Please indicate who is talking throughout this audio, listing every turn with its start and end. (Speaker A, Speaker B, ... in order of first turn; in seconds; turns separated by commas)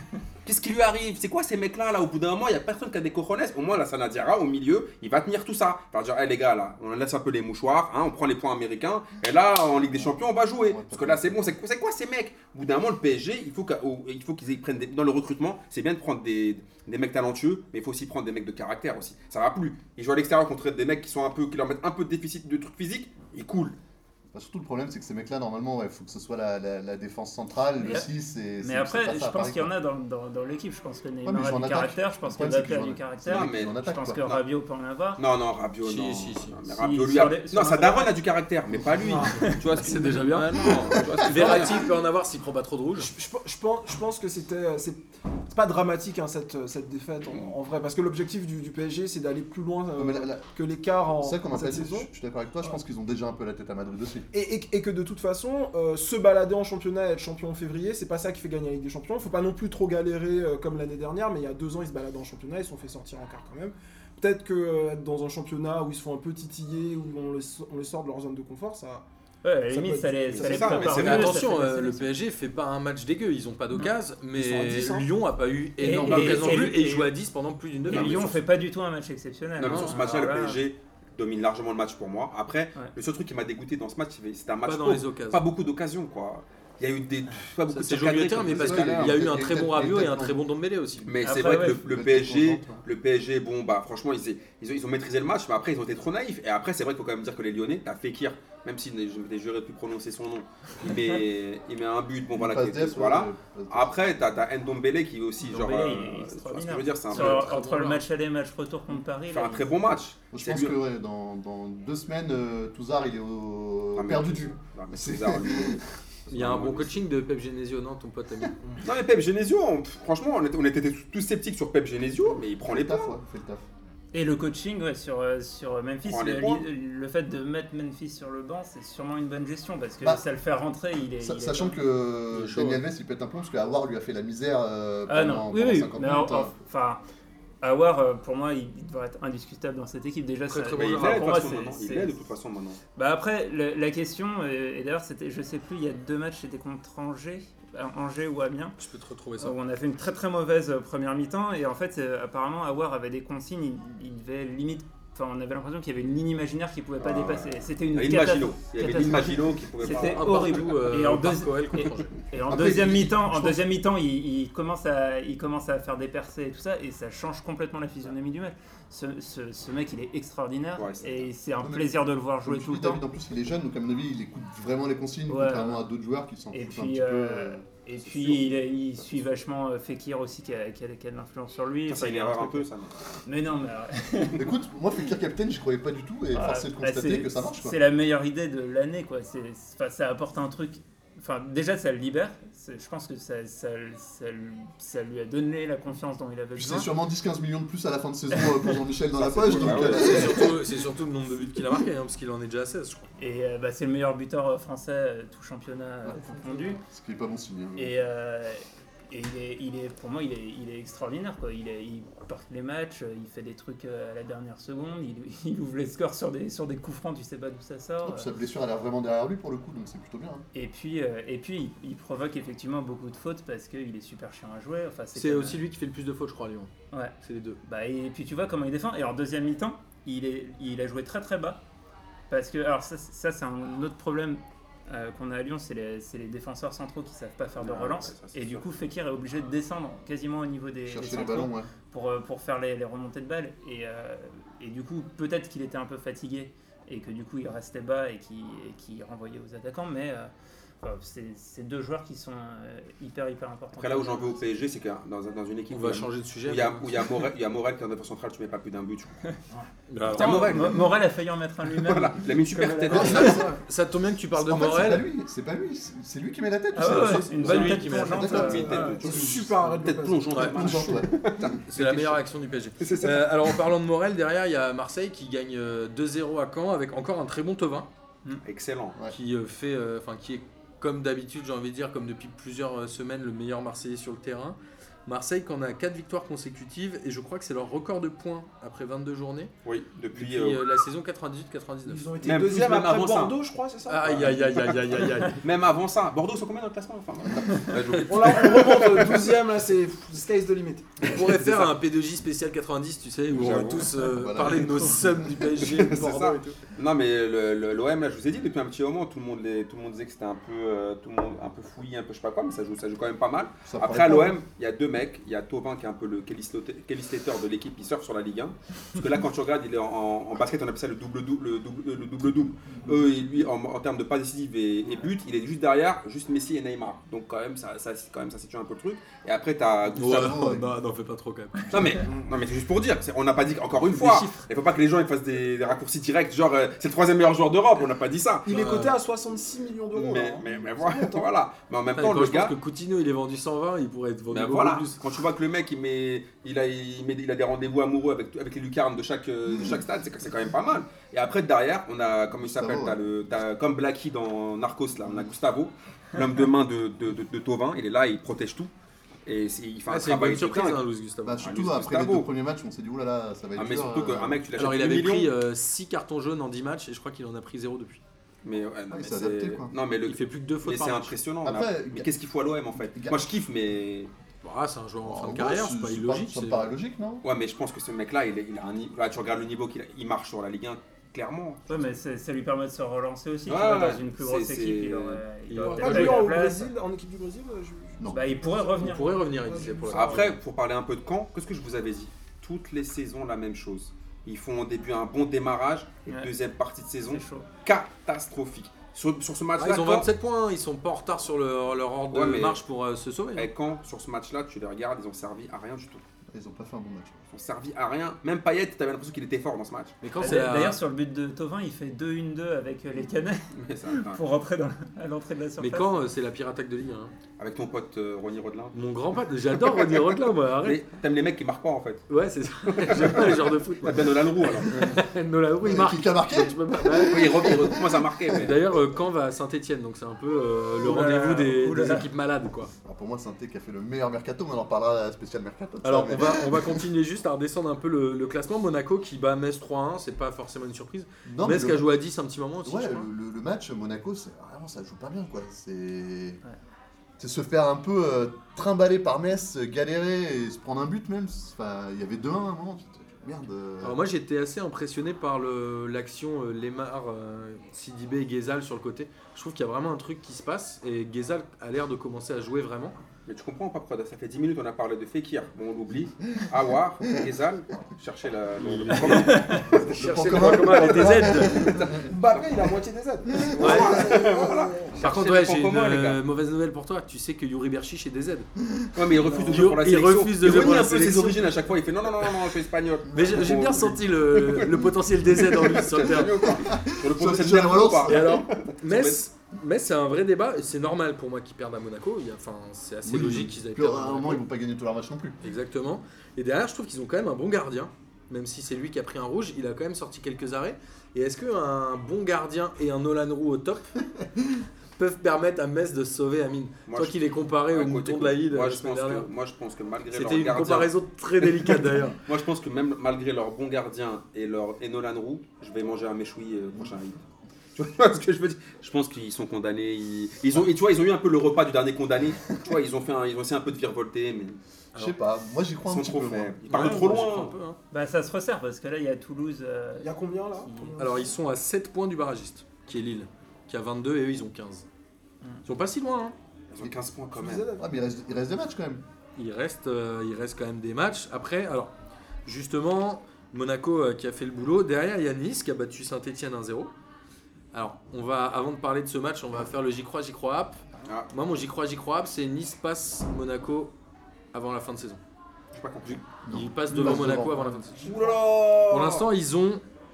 Speaker A: 0.5-23.8, Speaker B: 9.9-11.6, Speaker B: 24.3-29.7, Speaker C: 27.8-28.1, Speaker C: 28.6-35.2, Speaker B: 31.2-34.4, Speaker A: 33.3-34.4, Speaker A: 35.2-41.8, Speaker D: 35.8-36.6, Speaker C: 36.7-38.2, Speaker E: 38.9-39.4, Speaker C: 39.3-39.6, Speaker D: 39.8-43.1, Speaker E: 43.0-52.1, Speaker B: 50.0-50.5, Speaker B: 51.2-54.3, Speaker E: 54.3-69.1, Speaker C: 69.4-72.1, Speaker E: 69.7-70.8, Speaker A: 70.3-71.4, Speaker D: 70.8-78.4, Speaker E: 74.3-75.1, Speaker C: 75.8-77.1, Speaker B: 76.0-76.5, Speaker A: 76.1-76.6, Speaker A: 77.9-78.4, Speaker C: 77.9-80.6, Speaker A: 79.6-89.2, Speaker D: 79.6-80.0, Speaker D: 84.6-85.4, Speaker D: 87.7-91.3, Speaker B: 88.4-90.5, Speaker A: 91.1-107.5, Speaker C: 91.2-91.8, Speaker B: 91.6-92.8, Speaker B: 102.3-104.0, Speaker C: 105.4-109.7, Speaker D: 107.1-108.0, Speaker A: 109.3-110.8, Speaker B: 110.3-115.8, Speaker A: 114.0-117.0, Speaker D: 116.3-118.6, Speaker A: 118.8-123.1, Speaker B: 122.6-123.6, Speaker C: 124.1-131.8, Speaker A: 126.0-126.6, Speaker B: 131.2-136.5, Speaker D: 132.3-132.8, Speaker C: 135.1-137.0, Speaker C: 137.6-142.1, Speaker D: 140.5-141.4, Speaker A: 140.8-142.8, Speaker C: 143.0-148.8, Speaker D: 148.8-149.6, Speaker C: 149.4-173.0, Speaker A: 157.0-160.6, Speaker D: 159.8-162.1, Speaker B: 162.5-163.6, Speaker A: 170.8-171.3, Speaker B: 171.6-177.6, Speaker C: 175.3-175.9, Speaker C: 176.5-182.7, Speaker A: 181.9-183.0, Speaker C: 183.2-184.5, Speaker B: 184.4-187.8, Speaker C: 186.3-196.9, Speaker B: 196.6-200.6, Speaker C: 198.3-198.6, Speaker D: 199.3-203.1, Speaker A: 199.4-200.3, Speaker C: 203.2-206.8, Speaker B: 206.1-207.9, Speaker C: 207.8-218.3, Speaker B: 218.0-220.4, Speaker C: 220.5-225.6, Speaker D: 225.2-226.7, Speaker C: 226.9-231.6, Speaker D: 227.2-227.6, Speaker C: 232.3-250.3, Speaker A: 237.6-238.7, Speaker B: 240.9-241.7, Speaker C: 250.8-254.4, Speaker A: 253.8-259.1, Speaker D: 255.7-257.0, Speaker D: 259.9-260.6, Speaker A: 260.1-261.0, Speaker C: 260.1-263.4, Speaker A: 261.6-263.5, Speaker D: 262.9-265.1, Speaker B: 262.9-263.4, Speaker B: 264.4-269.3, Speaker C: 266.7-269.0, Speaker D: 266.9-268.4, Speaker A: 267.4-272.2, Speaker E: 268.3-270.8, Speaker D: 270.3-270.6, Speaker B: 270.4-271.1, Speaker D: 271.6-277.9, Speaker A: 272.8-273.6, Speaker A: 278.4-279.0, Speaker D: 279.1-289.5, Speaker A: 289.6-290.6, Speaker D: 290.1-292.1, Speaker E: 291.9-294.8, Speaker A: 292.2-293.4, Speaker D: 293.9-295.4, Speaker A: 295.3-299.4, Speaker E: 298.1-301.1, Speaker D: 301.0-306.6, Speaker A: 301.1-301.7, Speaker A: 303.3-303.9, Speaker B: 304.1-305.3, Speaker A: 305.6-330.4, Speaker B: 313.6-314.4, Speaker B: 322.7-323.0, Speaker B: 329.9-330.7, Speaker D: 329.9-332.0, Speaker A: 331.7-338.8, Speaker D: 333.8-334.5, Speaker E: 338.5-341.3, Speaker D: 338.5-339.0, Speaker A: 339.9-342.6, Speaker D: 341.9-345.0, Speaker A: 344.3-358.7, Speaker B: 352.4-353.1, Speaker A: 359.2-360.8, Speaker D: 359.9-361.4, Speaker B: 361.2-364.4, Speaker A: 361.4-362.3, Speaker A: 363.6-365.3, Speaker D: 364.6-368.0, Speaker A: 368.4-374.1, Speaker B: 368.9-369.7, Speaker D: 370.1-371.2, Speaker B: 371.4-372.1, Speaker B: 372.8-373.3, Speaker D: 374.4-376.7, Speaker B: 375.0-377.2, Speaker A: 377.2-381.7, Speaker C: 381.7-386.7, Speaker A: 383.5-385.2, Speaker D: 385.5-386.3, Speaker E: 385.6-390.2, Speaker C: 388.1-389.2, Speaker D: 388.8-390.4, Speaker A: 389.9-400.1, Speaker C: 397.1-397.5, Speaker D: 399.6-403.5, Speaker A: 402.1-402.6, Speaker A: 403.4-406.0, Speaker B: 406.3-407.2, Speaker A: 407.3-409.9, Speaker D: 410.0-410.8, Speaker C: 410.2-415.9, Speaker A: 413.5-414.2, Speaker D: 415.6-417.1, Speaker A: 417.4-418.8, Speaker D: 418.7-420.8, Speaker A: 419.6-420.1, Speaker A: 420.6-422.1, Speaker D: 422.1-427.7, Speaker A: 422.6-424.9, Speaker B: 425.6-428.4, Speaker A: 427.1-428.6, Speaker D: 428.3-432.7, Speaker C: 430.8-432.1, Speaker B: 432.9-436.9, Speaker D: 435.8-443.1, Speaker B: 441.3-441.9, Speaker B: 442.6-446.4, Speaker B: 447.2-454.0, Speaker D: 453.8-463.0, Speaker A: 463.3-472.7, Speaker D: 468.6-471.6, Speaker C: 469.1-469.6, Speaker B: 469.7-471.9, Speaker E: 470.0-471.3, Speaker E: 471.8-475.0, Speaker A: 473.6-476.2, Speaker D: 473.6-474.0, Speaker D: 475.0-478.5, Speaker A: 478.9-489.2, Speaker D: 479.1-481.5, Speaker D: 483.1-486.4, Speaker B: 486.7-488.4, Speaker D: 488.0-494.4, Speaker B: 493.0-495.4, Speaker D: 495.4-503.9, Speaker D: 505.0-509.3, Speaker A: 506.9-517.2, Speaker D: 510.1-512.2, Speaker A: 517.8-524.6, Speaker B: 525.0-526.9, Speaker A: 525.9-527.5, Speaker D: 526.7-527.8, Speaker C: 527.9-531.0, Speaker E: 530.0-531.4, Speaker D: 531.0-534.9, Speaker D: 535.6-536.4, Speaker A: 536.7-537.6, Speaker E: 537.4-537.9, Speaker B: 537.8-539.0, Speaker D: 539.4-541.9, Speaker D: 542.5-546.9, Speaker D: 547.7-550.8, Speaker D: 551.3-553.9, Speaker D: 554.5-555.2, Speaker A: 555.7-556.2, Speaker D: 556.0-558.1, Speaker B: 556.4-557.6, Speaker C: 556.9-557.7, Speaker A: 558.0-559.3, Speaker E: 558.1-558.4, Speaker D: 558.9-559.8